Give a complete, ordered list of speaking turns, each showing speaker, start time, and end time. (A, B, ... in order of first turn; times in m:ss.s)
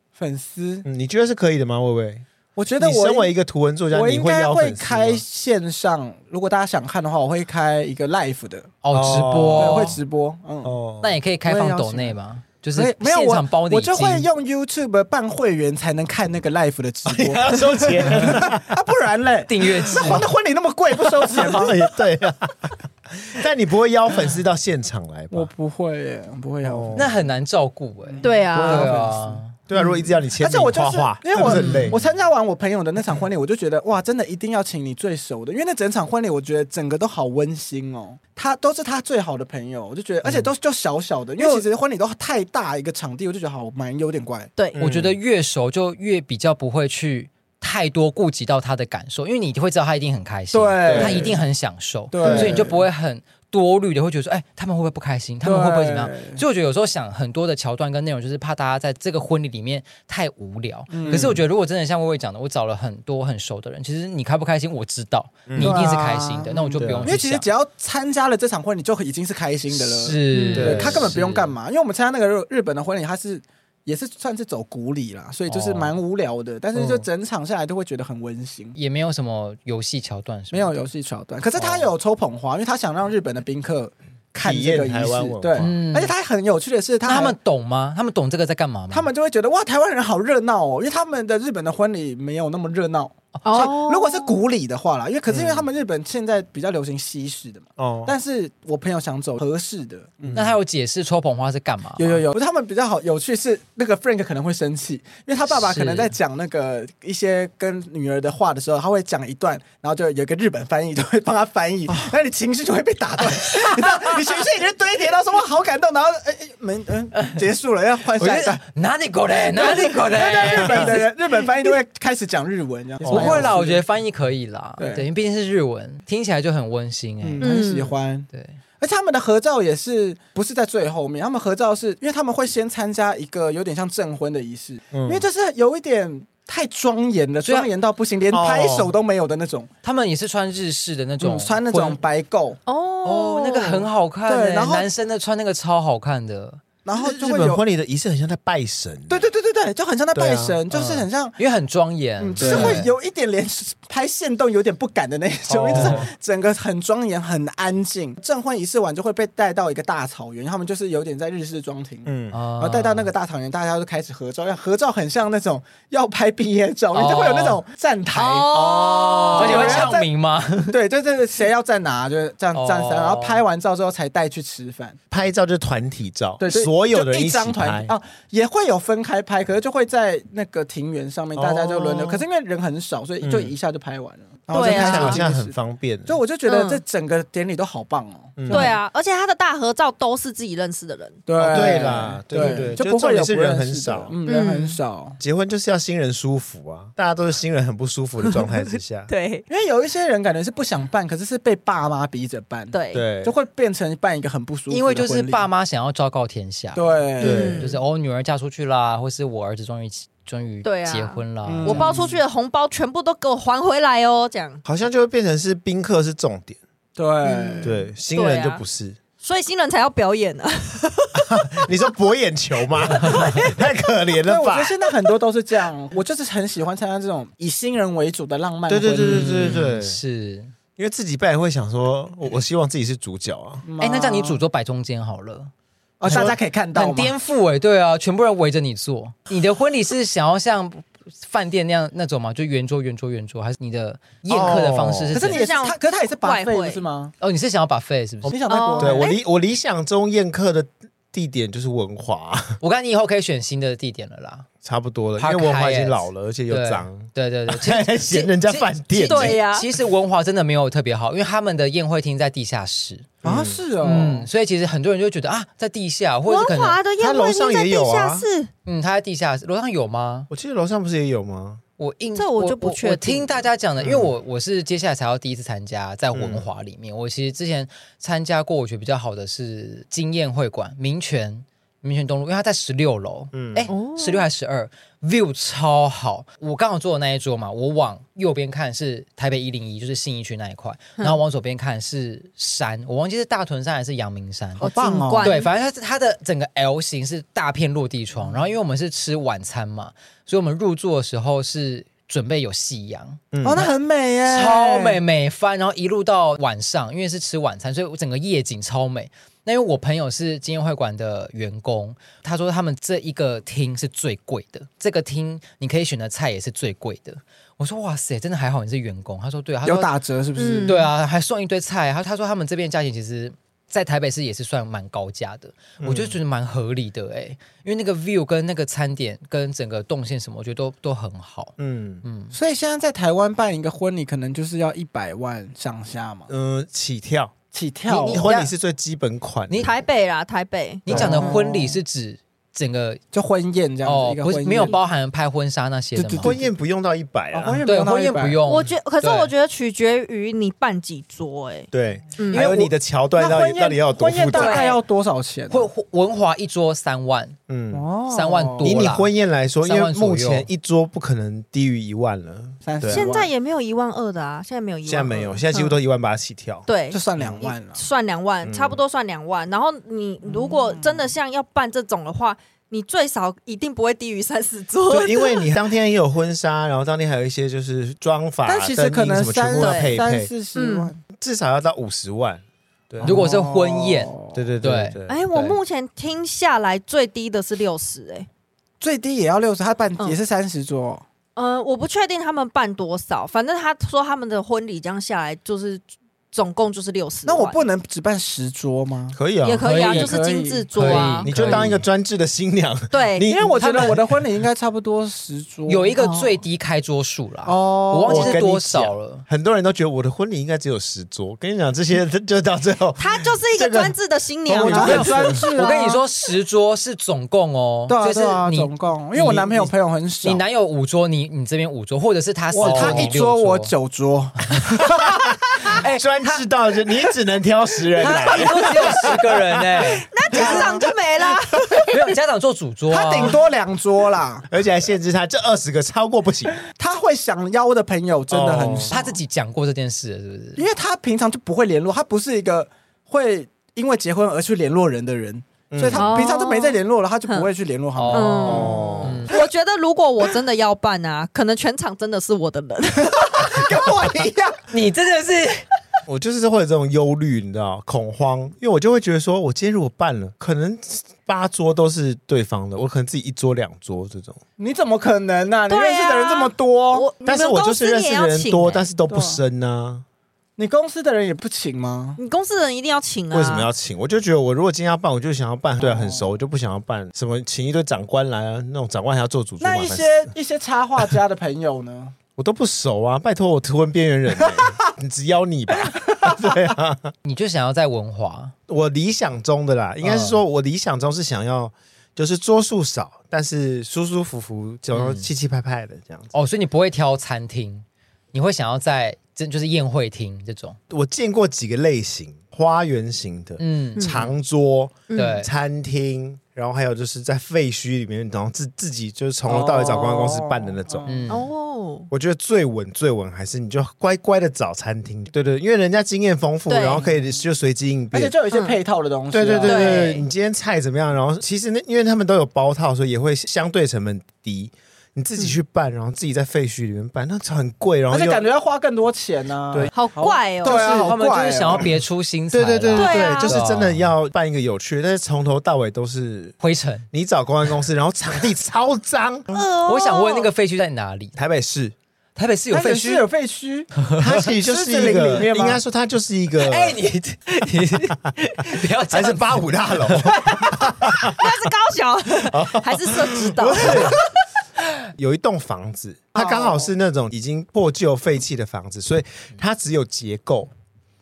0:00.2-0:00.9 A
0:00.8-0:02.2 B
0:02.6-0:03.3 A
0:02.8-0:05.2 B
0:03.9-0:08.7 A
0:08.8-0:10.0 C
0:08.9-0:10.0 B
0:09.6-0:10.7 A
0:10.6-0:11.2 B
0:11.0-0:14.3 C
0:11.4-0:12.2 A
0:12.8-0:21.8 A
0:17.1-0:18.7 B
0:19.5-0:20.3 C
0:19.9-0:20.3 B
0:21.0-0:25.5 B
0:25.3-0:27.1 A
0:26.6-0:27.2 B
0:26.9-0:29.6 C
0:28.0-0:44.5 A
0:28.2-0:28.9 D
0:28.6-0:28.9 B
0:29.7-0:32.0 B
0:31.4-0:32.0 C
0:40.2-0:40.5 B
0:44.8-0:45.2 B
0:44.8-1:07.5 C
0:50.5-0:51.4 A
0:50.9-0:51.4 B
0:52.1-0:52.8 A
0:52.2-0:52.6 B
0:55.4-0:56.4 A
1:00.9-1:01.4 A
1:01.1-1:01.4 B
1:05.5-1:05.8 B
1:05.6-1:18.8 A
1:06.8-1:07.1 B
1:09.7-1:11.6 C
1:10.3-1:10.8 D
1:10.5-1:11.1 B
1:15.5-1:16.0 C
1:16.7-1:17.1 B
1:18.8-1:20.8 C
1:20.5-1:27.4 A
1:21.6-1:21.9 C
1:24.4-1:25.7 B
1:25.6-1:26.2 C
1:27.0-1:29.1 C
1:28.9-1:40.4 A
1:33.4-1:34.4 D
1:35.3-1:35.7 B
1:37.8-1:38.1 B
1:40.2-1:40.6 B
1:40.3-1:42.2 C
1:42.0-1:58.6 A
1:45.5-1:46.1 C
1:58.2-2:01.1 C
1:59.5-2:03.8 A
2:03.0-2:03.6 B
2:03.1-2:07.6 C
2:04.8-2:05.1 A
2:07.2-2:08.3 A
2:07.4-2:08.0 D
2:08.3-2:08.6 C
2:08.8-2:19.7 A
2:14.9-2:15.3 B
2:17.4-2:17.7 C
2:18.3-2:18.9 B
2:19.8-2:22.0 C
2:21.2-2:22.6 A
2:22.7-2:23.9 D
2:23.0-2:26.6 C
2:24.3-2:24.9 A
2:26.8-2:27.6 A
2:26.9-2:29.2 B
2:29.1-2:31.4 A
2:30.1-2:30.6 B
2:30.7-2:32.9 C
2:32.2-2:50.1 A
2:32.4-2:32.9 B
2:35.5-2:36.1 C
2:35.6-2:36.1 B
2:42.1-2:42.4 B
2:42.3-2:43.1 C
2:46.9-2:47.6 C
2:48.1-2:49.9 D
2:49.4-2:50.8 C
2:50.7-2:55.0 A
2:52.5-2:53.4 C
2:55.1-2:57.9 B
2:56.4-3:08.8 A
3:01.4-3:02.2 B
3:03.2-3:03.5 B
3:04.5-3:05.2 D
3:04.5-3:06.2 B
3:06.5-3:06.8 D
3:08.4-3:08.7 B
3:08.5-3:11.6 D
3:11.3-3:15.2 A
3:11.4-3:14.1 B
3:12.3-3:12.7 D
3:14.3-3:14.8 D
3:15.2-3:19.1 B
3:18.2-3:19.5 D
3:19.5-3:25.5 A
3:22.7-3:23.0 D
3:22.9-3:23.3 B
3:24.7-3:31.9 C
3:26.8-3:27.6 A
3:27.2-3:27.7 B
3:27.2-3:27.8 D
3:30.6-3:34.6 D
3:31.5-3:32.2 A
3:34.6-3:36.6 B
3:37.0-3:37.8 A
3:37.2-3:38.6 D
3:37.6-3:39.0 B
3:39.2-3:41.7 D
3:41.2-3:44.7 B
3:42.9-3:43.6 D
3:44.3-3:49.6 A
3:48.7-3:50.0 B
3:49.0-3:50.5 C
3:50.8-3:53.6 B
3:53.6-3:54.4 A
3:53.8-3:55.5 C
3:56.0-3:57.1 A
3:56.1-4:05.4 C
3:56.1-3:56.4 B
4:04.3-4:05.2 B
4:05.1-4:07.1 A
4:05.3-4:06.8 D
4:07.2-4:08.4 C
4:08.3-4:09.1 A
4:08.5-4:09.2 D
4:08.8-4:12.6 B
4:12.6-4:14.5 C
4:14.6-4:19.4 B
4:15.2-4:23.2 C
4:19.0-4:19.7 D
4:23.2-4:23.6 B
4:23.2-4:24.3 A
4:23.8-4:26.8 C
4:26.3-4:28.5 D
4:27.0-4:28.3 B
4:28.7-4:30.3 C
4:30.3-4:31.6 B
4:31.8-4:54.7 C
4:32.2-4:33.4 D
4:33.8-4:34.1 B
4:36.1-4:36.5 B
4:43.3-4:43.7 B
4:43.7-4:44.3 D
4:54.6-4:55.4 A
4:54.6-4:55.5 D
4:55.2-5:03.7 C
5:03.3-5:03.6 B
5:03.4-5:05.0 A
5:04.2-5:19.9 C
5:19.6-5:20.8 A
5:20.4-5:20.9 D
5:20.6-5:32.3 C
5:25.8-5:26.2 B
5:31.6-5:32.0 B
5:32.3-5:36.3 A
5:36.3-5:37.3 B
5:37.5-5:38.2 A
5:37.9-5:38.5 C
5:38.0-5:39.7 B
5:39.6-5:40.9 D
5:40.9-5:43.0 C
5:40.9-5:41.2 B
5:40.9-5:41.8 A
5:43.1-5:44.8 A
5:43.8-5:46.4 C
5:46.0-5:46.5 A
5:46.2-5:47.6 B
5:47.3-5:48.4 A
5:47.7-5:49.3 C
5:48.5-5:52.5 D
5:51.7-5:54.6 B
5:52.3-5:55.7 A
5:54.3-5:54.8 D
5:55.5-5:57.4 C
5:57.5-5:57.8 B
5:57.7-5:58.8 A
5:58.1-5:59.1 C
5:58.6-6:03.1 B
5:59.6-6:00.5 C
6:02.6-6:03.3 A
6:02.9-6:05.8 D
6:04.9-6:07.4 B
6:06.7-6:15.5 D
6:06.9-6:07.8 A
6:08.4-6:08.8 B
6:10.3-6:11.0 A
6:14.9-6:20.3 B
6:18.4-6:21.0 A
6:19.6-6:20.0 D
6:20.6-6:20.9 D
6:21.2-6:23.2 B
6:23.0-6:24.4 A
6:23.0-6:25.5 C
6:24.3-6:25.2 B
6:25.1-6:28.3 D
6:28.8-6:31.0 A
6:31.4-6:37.6 D
6:37.2-6:39.2 A
6:39.1-6:39.6 B
6:39.4-6:41.6 D
6:39.6-6:40.1 C
6:39.8-6:41.6 A
6:40.8-6:41.8 C
6:41.2-6:44.0 B
6:42.9-6:43.3 D
6:43.3-6:45.9 A
6:43.6-6:44.0 C
6:45.7-6:49.2 C
6:46.0-6:46.4 D
6:47.4-6:48.4 A
6:48.1-6:54.0 B
6:53.0-6:56.0 D
6:54.5-6:55.4 B
6:54.5-6:56.0 A
6:54.7-7:03.7 C
6:57.9-7:00.4 A
7:02.5-7:05.8 A
7:02.6-7:03.1 B
7:05.0-7:10.6 B
7:05.7-7:06.1 C
7:08.0-7:10.7 C
7:08.0-7:09.1 A
7:10.0-7:11.9 D
7:10.3-7:10.8 A
7:11.9-7:13.4 C
7:12.9-7:14.5 A
7:14.5-7:16.6 B
7:16.7-7:19.2 A
7:18.3-7:18.9 B
7:18.9-7:20.7 C
7:20.6-7:29.5 A
7:25.7-7:26.1 B
7:25.9-7:27.5 D
7:28.0-7:29.3 C
7:28.1-7:33.7 D
7:28.5-7:29.3 B
7:33.0-7:34.6 A
7:34.7-7:35.6 C
7:36.1-7:44.4 B
7:44.6-7:47.1 A
7:45.7-7:48.9 D
7:47.2-7:50.0 B
7:49.1-7:49.4 A
7:50.6-7:52.2 A
7:52.2-7:53.7 D
7:53.3-8:00.3 B
7:55.8-7:56.3 A
7:59.6-8:02.2 A
8:02.4-8:07.1 B
8:04.4-8:04.8 A
8:05.9-8:06.4 A
8:07.2-8:08.5 C
8:08.7-8:16.3 B
8:10.0-8:10.4 C
8:14.9-8:15.3 C
8:16.3-8:20.8 C
8:20.9-8:31.3 B
8:23.6-8:24.1 C
8:24.0-8:24.3 D
8:25.1-8:25.4 D
8:25.2-8:25.5 C
8:29.5-8:31.3 A
8:31.1-8:31.4 C
8:31.3-8:32.1 D
8:32.1-8:38.4 B
8:36.7-8:37.0 D
8:38.1-8:40.0 A
8:38.5-8:38.8 D
8:39.3-8:48.5 B
8:39.6-8:40.3 D
8:48.1-8:51.9 A
8:49.9-8:50.8 D
8:50.7-8:54.1 C
8:50.7-8:51.1 B
8:52.5-8:56.6 B
8:53.0-8:53.6 D
8:56.6-8:57.1 C
8:57.1-8:59.5 B
8:59.5-9:00.5 D
8:59.9-9:01.4 C
9:01.4-9:02.0 B
9:02.4-9:03.2 C
9:02.7-9:03.9 A
9:04.0-9:04.4 C
9:04.2-9:07.0 B
9:04.6-9:05.8 A
9:06.6-9:10.3 C
9:09.1-9:11.4 B
9:10.3-9:14.2 D
9:12.5-9:14.2 B
9:15.2-9:20.7 B
9:16.3-9:16.9 A